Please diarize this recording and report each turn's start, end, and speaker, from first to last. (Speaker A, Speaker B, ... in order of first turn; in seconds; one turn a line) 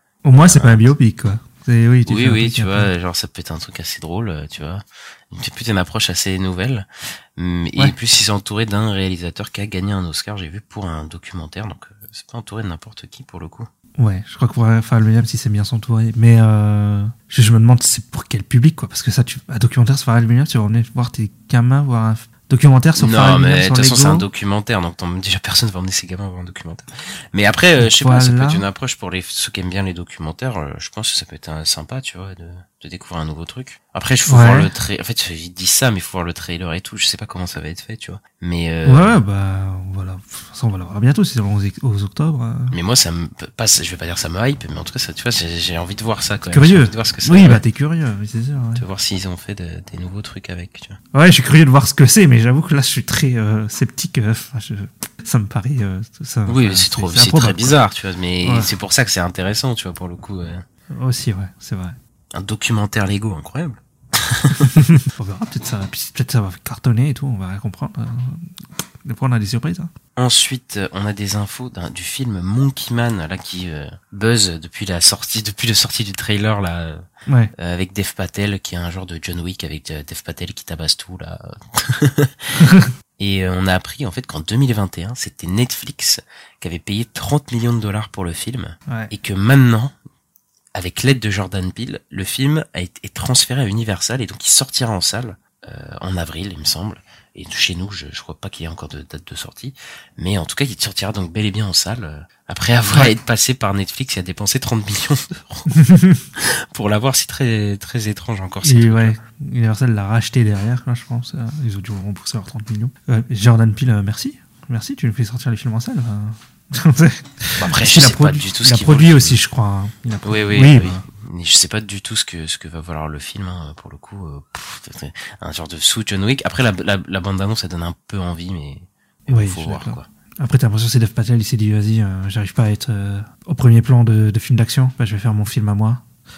Speaker A: 0.2-2.9
Speaker B: 0.3-0.9
Speaker B: 2.1-13.7
Speaker A: 14.0-24.2
Speaker B: 23.0-39.2
Speaker A: 27.8-28.6
Speaker A: 34.3-34.7
Speaker A: 38.8-42.8
Speaker B: 42.7-47.6
Speaker A: 46.5-48.8
Speaker B: 48.8-51.0
Speaker A: 51.1-57.8
Speaker B: 56.5-60.6
Speaker A: 58.4-58.7
Speaker A: 60.9-62.0
Speaker B: 62.3-64.8
Speaker A: 64.9-68.5
Speaker A: 69.0-69.9
Speaker B: 70.2-89.9
Speaker A: 77.3-77.5
Speaker B: 90.7-109.1
Speaker A: 105.8-106.2
Speaker A: 108.6-121.0
Speaker B: 117.5-119.4
Speaker B: 120.2-130.1
Speaker A: 129.3-136.0